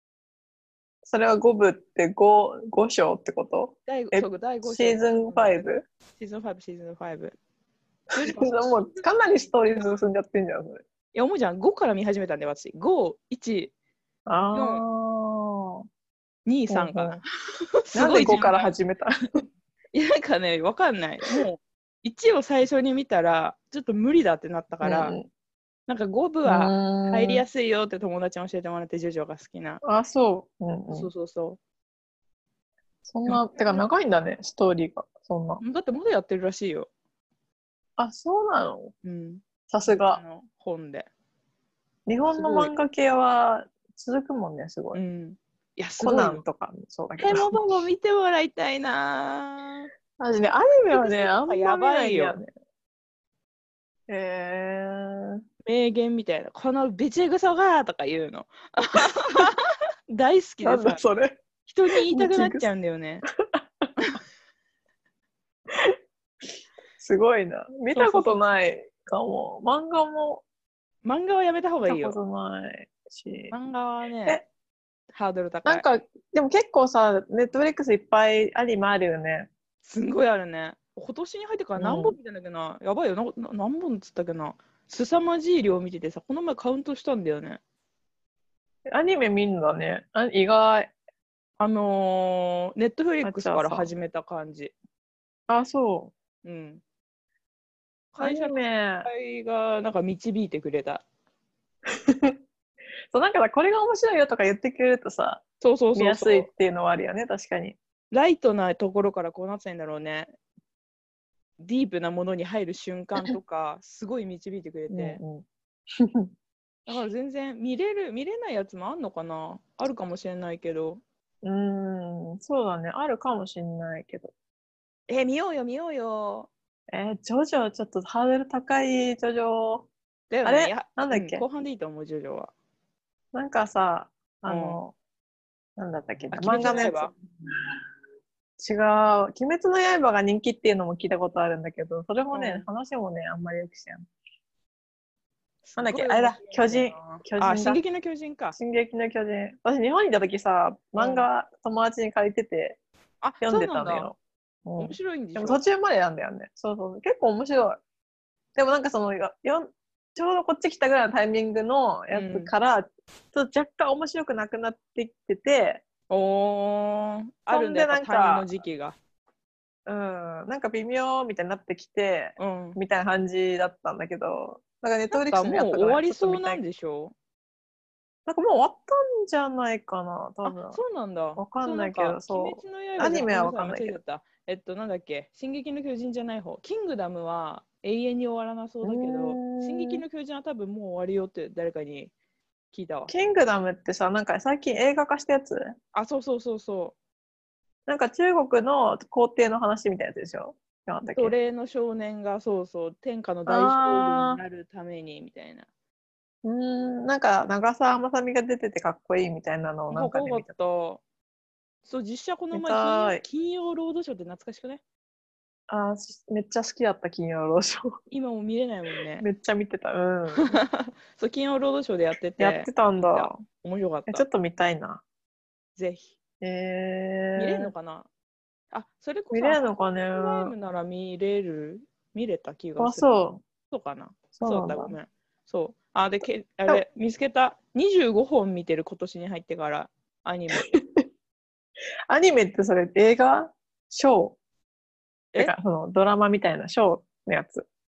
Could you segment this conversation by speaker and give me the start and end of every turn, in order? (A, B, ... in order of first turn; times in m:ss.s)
0:01.0-0:05.8 A
0:03.9-0:07.4 B
0:08.1-0:09.0 B
0:08.1-0:10.8 A
0:11.1-0:13.7 B
0:14.3-0:15.8 A
0:14.5-0:14.9 B
0:16.5-0:17.2 B
0:16.7-0:17.2 A
0:17.8-0:18.7 B
0:17.9-0:19.1 A
0:19.9-0:25.2 B
0:24.8-0:25.3 A
0:25.9-0:29.8 B
0:26.4-0:27.4 A
0:29.8-0:31.1 A
0:30.9-0:31.6 B
0:33.1-0:35.6 A
0:33.3-0:33.8 B
0:35.6-0:36.9 B
0:38.0-0:38.9 A
0:39.0-0:41.1 B
0:39.7-0:40.2 A
0:42.1-0:45.0 A
0:42.3-0:42.7 B
0:44.9-0:46.4 B
0:46.0-0:47.6 A
0:47.2-0:49.9 B
0:50.2-0:52.5 A
0:50.9-0:52.4 B
0:54.1-0:55.4 A
0:55.7-1:01.0 B
1:00.6-1:01.4 A
1:01.7-1:03.3 B
1:02.0-1:02.7 A
1:03.4-1:03.9 A
1:05.7-1:06.0 A
1:07.0-1:10.4 A
1:07.9-1:08.4 B
1:11.0-1:12.2 B
1:11.9-1:13.5 A
1:13.5-1:14.4 B
1:15.1-1:15.8 B
1:15.6-1:19.5 A
1:19.8-1:27.6 B
1:21.8-1:22.2 A
1:28.9-1:30.9 A
1:31.6-1:34.7 B
1:33.2-1:33.9 A
1:35.5-1:36.1 A
1:36.4-1:36.8 B
1:38.1-1:41.0 B
1:38.2-1:39.1 A
1:41.9-1:42.4 A
1:43.1-1:45.4 A
1:45.6-1:46.5 B
1:46.0-1:47.8 A
1:48.1-1:50.3 B
1:51.6-1:55.2 B
1:54.9-1:56.3 A
1:56.9-2:01.0 B
2:01.4-2:04.3 A
2:05.1-2:06.5 B
2:06.9-2:09.9 A
2:10.3-2:12.5 B
2:10.4-2:11.4 A
2:13.3-2:15.0 A
2:14.5-2:14.8 B
2:15.8-2:17.1 A
2:16.3-2:17.1 B
2:18.6-2:24.1 A
2:22.3-2:22.7 B
2:25.7-2:28.6 B
2:25.8-2:27.8 A
2:28.6-2:32.8 A
2:31.0-2:31.3 B
2:33.2-2:34.1 B
2:33.4-2:37.8 A
2:34.8-2:35.6 B
2:38.6-2:45.8 A
2:42.1-2:42.5 B
2:46.1-2:49.0 B
2:47.5-2:48.5 A
2:49.9-2:56.6 A
2:52.4-2:52.8 B
2:55.1-2:57.1 B
2:58.3-3:00.8 A
3:00.4-3:12.1 B
3:01.4-3:04.0 A
3:08.8-3:10.0 A
3:12.7-3:13.1 B
3:13.1-3:15.7 A
3:15.9-3:17.0 B
3:17.9-3:21.4 A
3:21.1-3:25.7 B
3:23.5-3:24.4 A
3:26.4-3:30.5 A
3:29.9-3:31.0 B
3:31.8-3:34.8 B
3:32.5-3:33.2 A
3:35.7-3:38.0 A
3:38.1-3:39.3 B
3:39.2-3:40.6 A
3:40.4-3:44.2 B
3:42.4-3:43.4 A
3:44.1-3:45.0 A
3:45.8-3:46.2 B
3:46.4-3:47.7 A
3:47.4-3:48.1 B
3:48.7-3:53.1 B
3:49.3-3:50.5 A
3:52.8-3:53.4 A
3:53.7-4:00.7 B
3:54.4-3:55.0 A
4:00.5-4:01.0 A
4:02.1-4:04.4 A
4:05.4-4:07.7 A